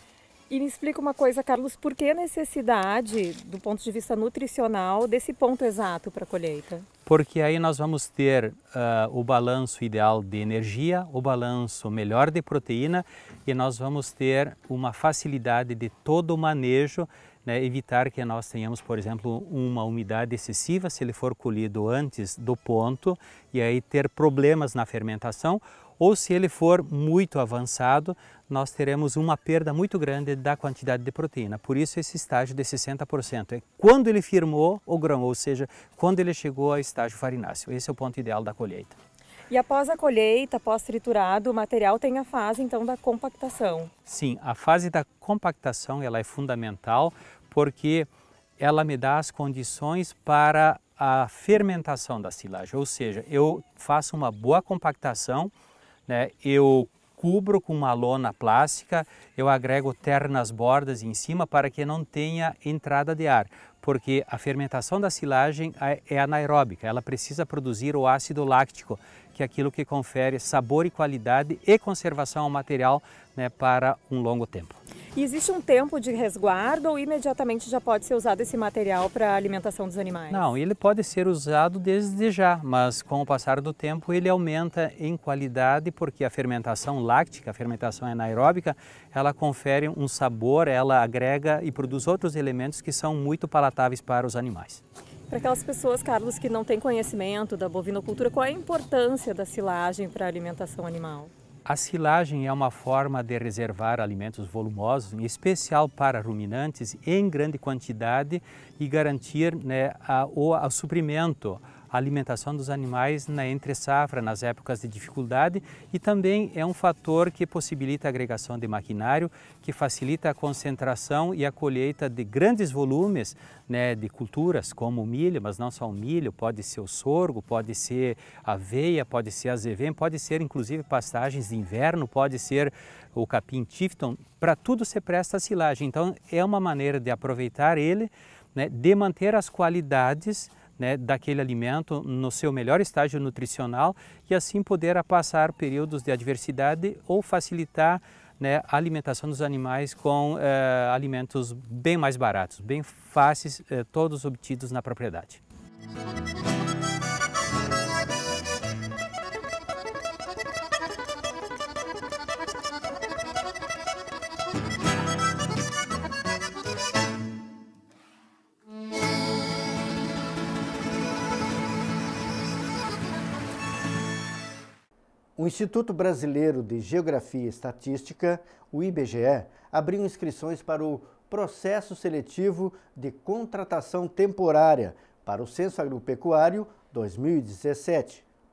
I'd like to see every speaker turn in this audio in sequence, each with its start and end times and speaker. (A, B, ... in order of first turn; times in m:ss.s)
0:00.5-0:06.8 A
0:07.0-0:38.9 B
0:39.5-0:43.9 A
0:44.1-0:48.1 B
0:48.6-0:55.5 B
0:56.1-1:14.8 B
1:15.2-1:20.4 A
1:20.3-1:34.8 B
1:35.3-1:41.3 A
1:41.6-2:35.4 B
2:55.4-3:08.2 C